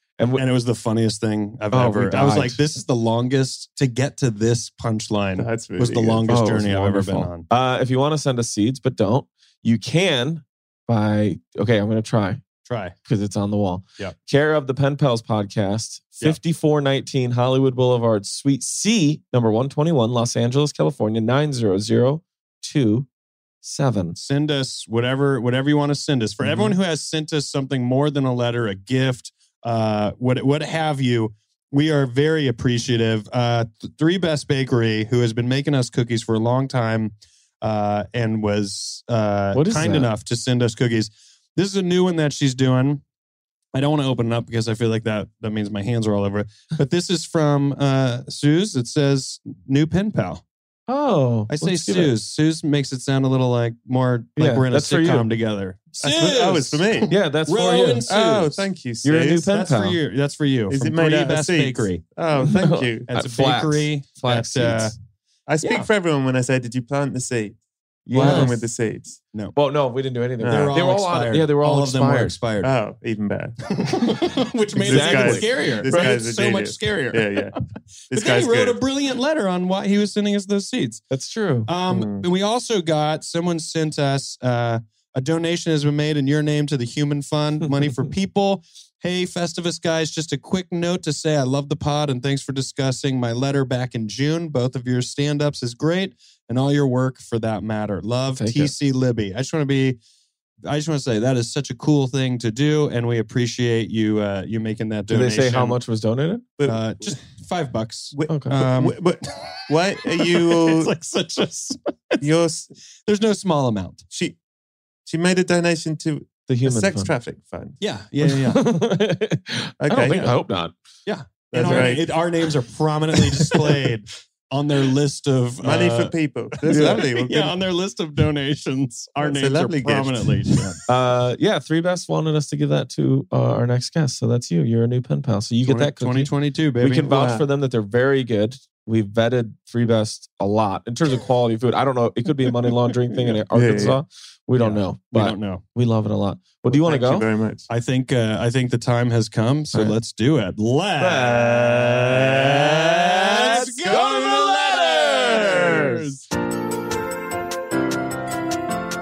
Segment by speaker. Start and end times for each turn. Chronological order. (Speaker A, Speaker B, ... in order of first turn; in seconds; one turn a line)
Speaker A: 0.2-0.4
Speaker B: 0.3-7.5
Speaker A: 1.7-2.6
Speaker C: 5.3-6.4
Speaker A: 6.3-12.4
Speaker B: 12.7-12.9
Speaker A: 13.1-23.1
Speaker A: 23.6-24.1
Speaker B: 24.1-43.0
Speaker A: 26.4-26.7
Speaker A: 39.5-40.1
Speaker B: 43.7-50.4
Speaker A: 50.9-52.1
Speaker B: 51.5-58.6
Speaker A: 54.4-55.3
Speaker A: 56.0-56.3
Speaker C: 56.0-57.1
Speaker A: 57.1-58.1
Speaker C: 58.0-59.5
Speaker A: 59.0-60.0
Speaker B: 59.5-62.0
Speaker C: 60.7-63.1
Speaker A: 62.4-64.9
Speaker B: 63.1-64.9
Speaker C: 65.5-67.6
Speaker B: 65.6-65.9
Speaker A: 68.0-68.7
Speaker C: 68.1-69.2
Speaker B: 68.2-68.5
Speaker A: 69.5-72.4
Speaker C: 70.4-70.8
Speaker B: 70.4-72.7
Speaker C: 72.6-73.6
Speaker B: 73.7-77.5
Speaker C: 74.8-77.6
Speaker A: 74.8-76.1
Speaker B: 78.1-81.0
Speaker C: 78.1-78.8
Speaker A: 81.1-81.7
Speaker B: 81.7-100.0
Speaker C: 81.9-82.3
Speaker A: 87.6-88.0
Speaker A: 98.3-98.7
Speaker B: 100.7-105.8
Speaker A: 105.1-106.4
Speaker C: 106.6-107.2
Speaker B: 106.7-109.0
Speaker C: 108.1-110.9
Speaker A: 108.3-108.6
Speaker B: 110.2-112.2
Speaker C: 112.2-112.7
Speaker B: 113.0-114.0
Speaker C: 114.1-114.4
Speaker C: 115.0-117.8
Speaker A: 116.5-117.1
Speaker B: 117.8-118.6
Speaker A: 118.2-120.7
Speaker C: 119.8-120.3
Speaker B: 121.0-130.8
Speaker C: 121.5-122.1
Speaker A: 121.6-122.0
Speaker C: 125.6-127.5
Speaker A: 126.7-127.0
Speaker C: 129.2-130.6
Speaker A: 130.9-147.3
Speaker B: 135.6-137.1
Speaker C: 137.1-137.4
Speaker C: 143.5-144.0
Speaker B: 144.6-145.6
Speaker C: 146.7-147.6
Speaker B: 147.7-156.2
Speaker A: 151.0-156.2